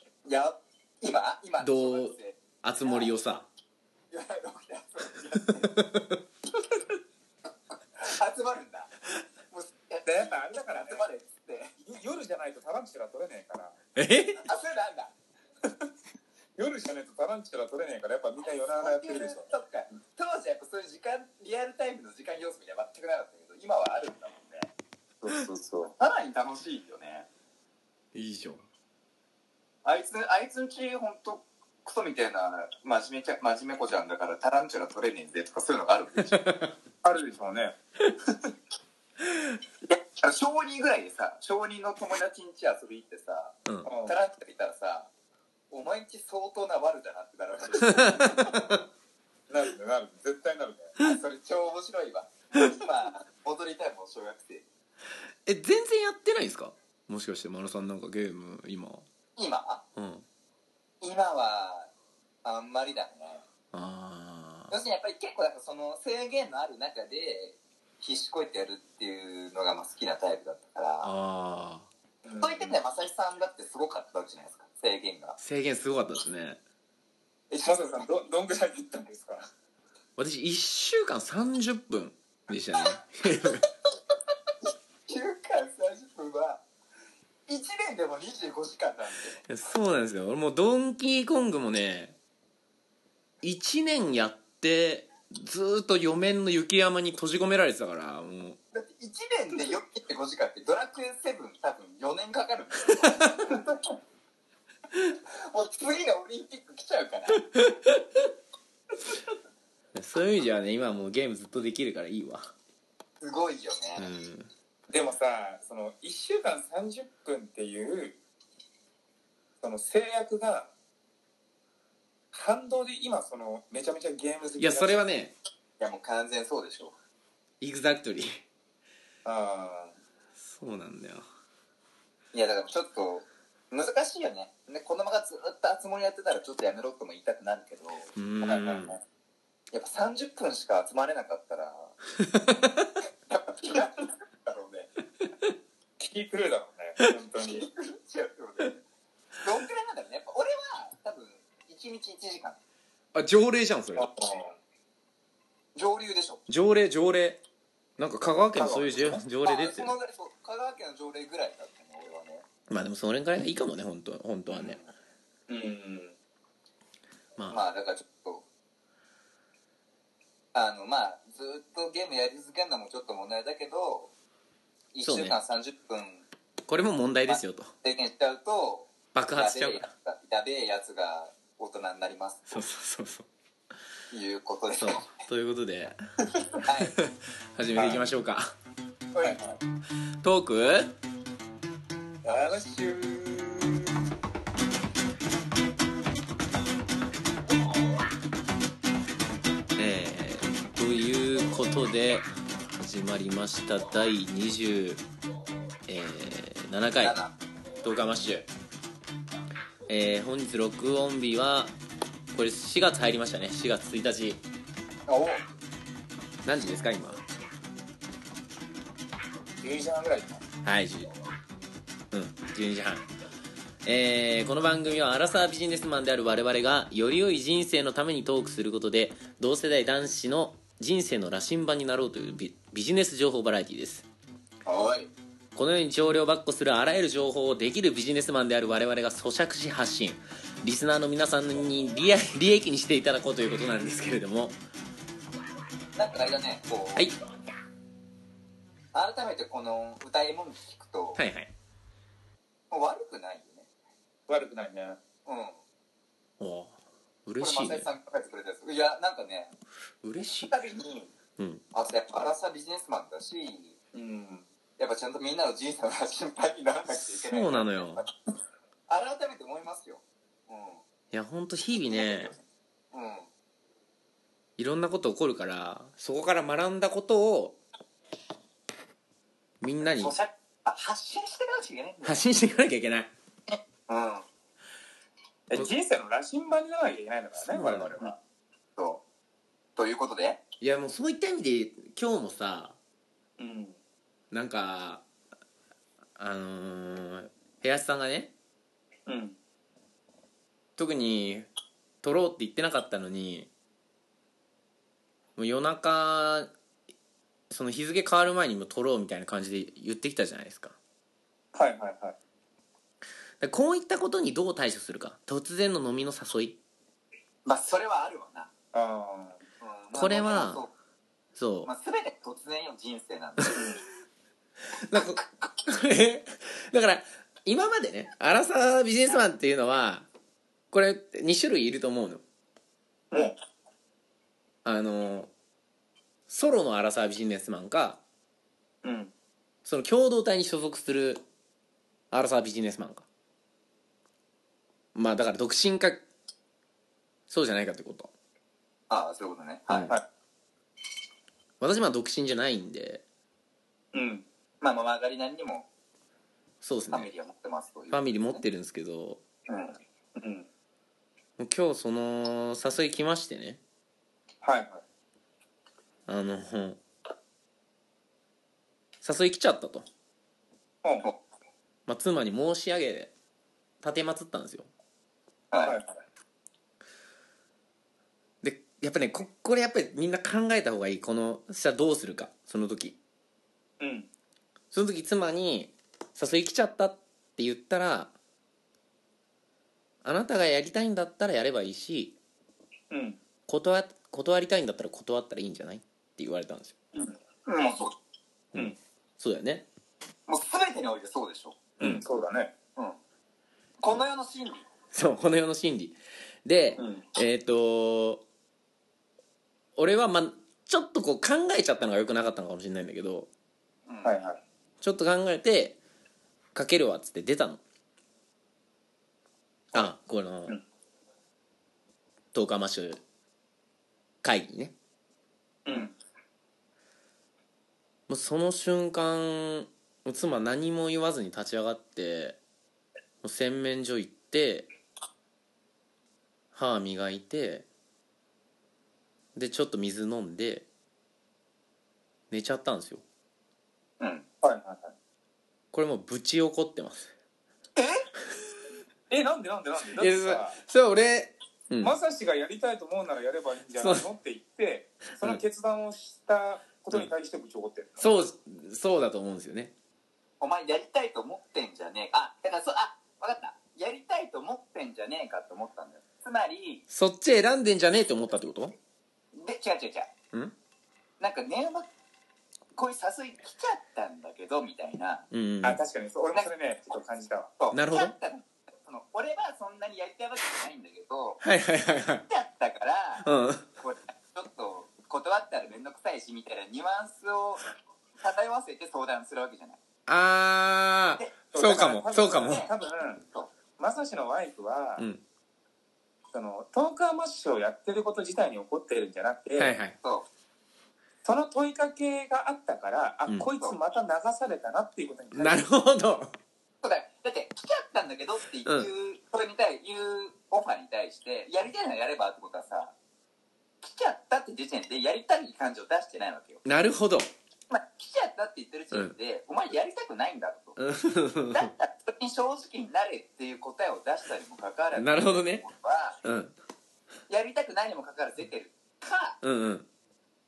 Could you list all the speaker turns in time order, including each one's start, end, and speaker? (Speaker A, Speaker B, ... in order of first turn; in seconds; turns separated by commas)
Speaker A: 0.2-3.1, Speaker B: 1.6-3.5, Speaker A: 4.1-5.8, Speaker B: 5.6-6.2, Speaker A: 8.0-8.9, Speaker A: 9.5-11.7, Speaker C: 10.1-11.0, Speaker C: 11.8-13.8, Speaker B: 13.9-14.4, Speaker A: 14.4-15.1, Speaker C: 16.6-19.4, Speaker A: 18.8-24.7, Speaker C: 25.2-25.9, Speaker A: 26.0-27.3, Speaker B: 28.1-28.6, Speaker A: 29.8-36.4, Speaker B: 36.2-36.7, Speaker C: 37.0-37.8, Speaker A: 39.9-45.1, Speaker C: 43.9-44.2, Speaker A: 45.7-48.6, Speaker B: 47.8-48.8, Speaker C: 49.5-51.0, Speaker A: 51.0-54.6, Speaker B: 55.5-59.0, Speaker A: 59.4-59.8, Speaker B: 60.0-60.2, Speaker A: 61.0-61.9, Speaker A: 62.4-63.4, Speaker B: 63.7-64.7, Speaker A: 64.7-71.1, Speaker B: 71.0-71.9, Speaker C: 72.2-72.8, Speaker A: 72.4-75.4, Speaker B: 75.4-76.6, Speaker A: 77.5-78.0, Speaker C: 77.6-79.5, Speaker B: 80.2-83.6, Speaker A: 85.1-86.6, Speaker A: 87.5-89.4, Speaker B: 89.5-92.2, Speaker B: 93.4-98.6, Speaker A: 98.7-103.8, Speaker B: 102.9-103.5, Speaker A: 105.1-107.5, Speaker B: 107.5-108.2, Speaker B: 109.9-112.5, Speaker A: 113.2-114.1, Speaker B: 114.0-114.5, Speaker C: 114.9-118.2, Speaker C: 119.6-120.7, Speaker C: 122.3-125.0, Speaker B: 124.6-125.3, Speaker A: 125.8-127.0, Speaker B: 127.6-128.4, Speaker C: 129.2-129.9, Speaker B: 130.4-131.2, Speaker A: 132.3-138.1, Speaker B: 138.1-139.0, Speaker C: 138.4-139.0, Speaker A: 139.7-141.9, Speaker B: 142.2-142.9, Speaker A: 143.3-144.9, Speaker C: 146.0-147.7, Speaker A: 147.3-148.8, Speaker A: 149.4-152.6, Speaker B: 153.1-154.1, Speaker C: 153.9-154.5, Speaker A: 155.8-156.4, Speaker B: 156.5-157.4, Speaker B: 158.0-159.9, Speaker C: 158.5-159.2, Speaker A: 159.4-162.4, Speaker B: 162.7-164.8, Speaker A: 164.5-164.9, Speaker C: 165.5-166.1, Speaker B: 167.4-167.6, Speaker A: 167.5-168.4, Speaker A: 170.5-174.1, Speaker A: 174.9-176.2, Speaker B: 175.0-175.4, Speaker B: 176.7-177.7, Speaker A: 177.3-182.6, Speaker B: 179.1-179.9, Speaker B: 182.5-183.3, Speaker A: 184.1-185.1, Speaker B: 184.8-186.0, Speaker A: 186.6-187.0, Speaker B: 186.9-188.5, Speaker C: 187.8-188.0, Speaker A: 189.1-189.6, Speaker B: 190.2-190.9, Speaker C: 192.2-193.6, Speaker B: 199.8-202.2, Speaker B: 202.8-205.0, Speaker B: 205.9-207.2, Speaker A: 207.0-207.3, Speaker B: 207.8-208.5, Speaker B: 209.9-211.7, Speaker B: 212.3-214.4, Speaker A: 215.1-215.4, Speaker B: 216.4-217.2, Speaker C: 219.6-220.4, Speaker B: 220.6-221.1, Speaker B: 222.1-223.0, Speaker B: 223.8-234.1, Speaker A: 234.7-235.1, Speaker B: 235.5-244.6, Speaker A: 246.0-247.1, Speaker A: 248.9-251.2, Speaker B: 251.2-251.5, Speaker A: 252.7-253.7, Speaker C: 254.3-255.0, Speaker A: 255.2-255.6, Speaker B: 256.4-257.9, Speaker A: 257.4-259.5, Speaker B: 260.0-260.5, Speaker A: 260.2-261.1, Speaker B: 261.4-261.6, Speaker A: 261.7-263.8, Speaker C: 263.9-264.5, Speaker A: 264.8-268.1, Speaker B: 266.9-268.1, Speaker A: 268.9-270.8, Speaker B: 271.1-272.4, Speaker A: 271.9-272.4, Speaker A: 272.9-273.3, Speaker B: 274.6-277.6, Speaker B: 279.6-280.1, Speaker A: 279.9-282.2, Speaker B: 282.0-283.1, Speaker A: 283.5-284.2, Speaker C: 285.5-288.2, Speaker B: 287.4-288.0, Speaker A: 288.8-289.0, Speaker A: 289.8-290.4, Speaker B: 290.6-292.8, Speaker C: 293.4-293.8, Speaker B: 294.3-295.0, Speaker B: 296.2-298.3, Speaker C: 299.1-299.4, Speaker B: 300.8-301.5, Speaker B: 302.0-303.5, Speaker B: 305.4-306.5, Speaker B: 307.5-310.8, Speaker C: 311.5-312.1, Speaker B: 313.4-316.6, Speaker A: 317.4-318.5, Speaker C: 318.7-319.4, Speaker A: 319.6-320.7, Speaker B: 319.9-320.6, Speaker B: 321.4-321.7, Speaker A: 321.6-323.8, Speaker C: 323.5-323.8, Speaker B: 324.8-330.1, Speaker B: 330.7-332.2, Speaker C: 333.1-333.4, Speaker B: 334.6-335.3, Speaker B: 336.3-338.0, Speaker C: 338.8-339.1, Speaker B: 339.6-341.2, Speaker B: 342.1-343.1, Speaker B: 344.9-346.0, Speaker B: 347.3-348.1, Speaker A: 348.9-349.9, Speaker B: 349.7-349.9, Speaker B: 351.6-353.0, Speaker C: 353.9-354.2, Speaker A: 354.6-355.7, Speaker B: 356.6-357.1, Speaker A: 356.9-358.4, Speaker B: 357.9-359.2, Speaker A: 359.5-359.7, Speaker C: 360.1-360.5, Speaker B: 361.4-363.6, Speaker C: 364.4-364.8, Speaker B: 366.1-366.8, Speaker B: 369.0-369.9, Speaker B: 371.9-373.1, Speaker B: 373.8-374.7, Speaker A: 375.5-375.8, Speaker C: 375.6-375.9, Speaker B: 378.4-383.0, Speaker C: 383.8-384.1, Speaker B: 384.7-388.1, Speaker B: 390.0-392.1, Speaker C: 392.9-393.2, Speaker B: 393.5-396.8, Speaker A: 397.5-398.0, Speaker B: 398.5-399.6, Speaker A: 400.3-401.6, Speaker C: 401.8-402.5, Speaker A: 403.8-404.6, Speaker B: 404.9-408.2, Speaker B: 409.8-413.3, Speaker A: 413.9-414.1, Speaker C: 414.0-414.4, Speaker B: 414.8-415.8, Speaker B: 416.5-417.6, Speaker B: 419.7-420.6, Speaker B: 422.3-423.0, Speaker B: 424.2-424.8, Speaker C: 425.6-425.9, Speaker B: 428.1-432.4, Speaker B: 433.2-434.7, Speaker B: 436.5-437.6, Speaker B: 439.4-440.6, Speaker B: 442.3-443.0, Speaker A: 444.0-444.2, Speaker C: 444.4-444.9, Speaker B: 445.7-447.1, Speaker A: 447.8-448.0, Speaker C: 449.1-450.6, Speaker B: 450.0-451.9, Speaker C: 451.8-458.1, Speaker B: 453.8-454.1, Speaker B: 458.0-459.7, Speaker A: 460.4-466.8, Speaker B: 466.9-468.8, Speaker A: 469.4-470.1, Speaker A: 471.2-471.9, Speaker A: 472.8-475.3, Speaker B: 475.3-475.8, Speaker C: 475.6-477.5, Speaker A: 477.6-481.4, Speaker B: 477.7-478.1, Speaker B: 481.4-482.2, Speaker A: 482.3-483.3, Speaker B: 483.2-483.6, Speaker A: 483.8-487.7, Speaker A: 488.2-489.8, Speaker B: 490.1-492.6, Speaker C: 491.5-493.2, Speaker A: 492.4-492.7, Speaker C: 493.8-495.0, Speaker C: 496.3-499.7, Speaker B: 499.6-499.9, Speaker C: 501.2-505.6, Speaker B: 505.3-506.3, Speaker A: 506.8-512.9, Speaker A: 513.8-516.6, Speaker B: 516.6-517.3, Speaker A: 517.7-520.8, Speaker B: 520.8-521.7, Speaker A: 521.5-526.2, Speaker B: 525.0-525.6, Speaker B: 526.2-526.5, Speaker A: 527.3-529.4, Speaker B: 529.4-529.9